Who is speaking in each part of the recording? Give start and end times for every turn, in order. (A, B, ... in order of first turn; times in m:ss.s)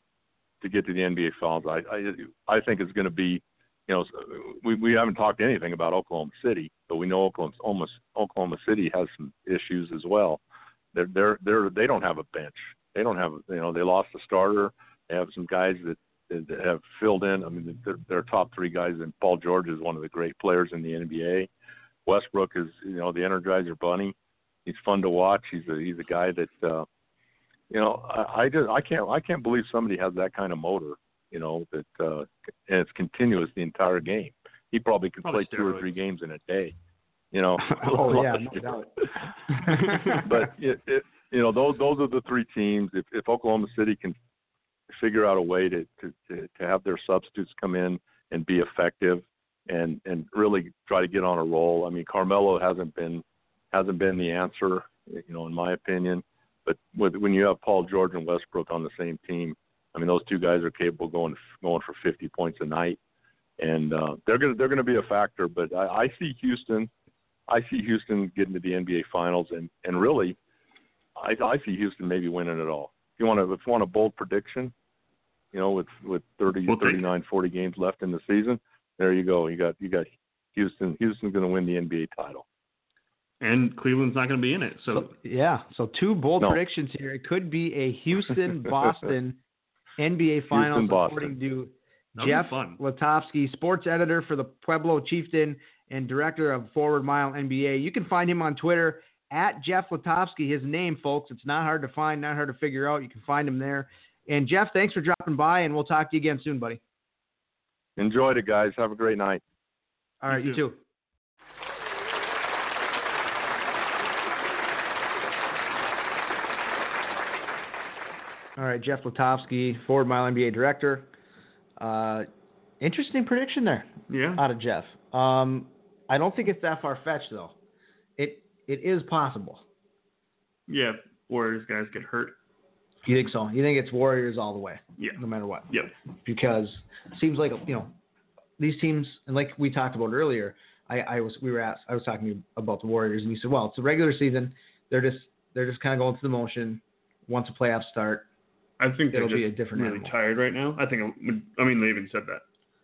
0:00.6-0:10.4 A
0:10.9-0:21.5 A
0:22.0-0:24.1 A
0:24.6-0:26.8 A
0:27.7-0:36.7 A
0:35.2-0:35.9 B
0:37.3-0:38.6 A
0:37.8-0:38.9 C
0:39.6-0:40.2 C
0:40.2-0:44.2 A
0:44.9-1:03.0 A
1:03.6-1:06.9 A
1:07.5-1:10.4 A
1:11.2-1:14.7 A
1:15.5-1:22.4 A
1:16.7-1:17.0 B
1:23.4-1:25.1 B
1:24.9-1:29.4 C
1:30.0-1:46.8 C
1:30.5-1:31.3 A
1:32.2-1:32.8 B
1:48.0-1:49.4 A
1:50.2-1:50.8 C
1:50.3-1:50.6 B
1:58.6-2:01.1 C
2:01.8-2:02.3 C
2:02.8-2:07.6 C
2:04.1-2:04.4 B
2:08.2-2:09.6 C
2:10.7-2:12.4 B
2:13.0-2:15.7 C
2:15.0-2:15.9 B
2:16.2-2:17.9 C
2:18.6-2:28.2 C
2:28.8-2:32.4 B
2:29.1-2:30.1 C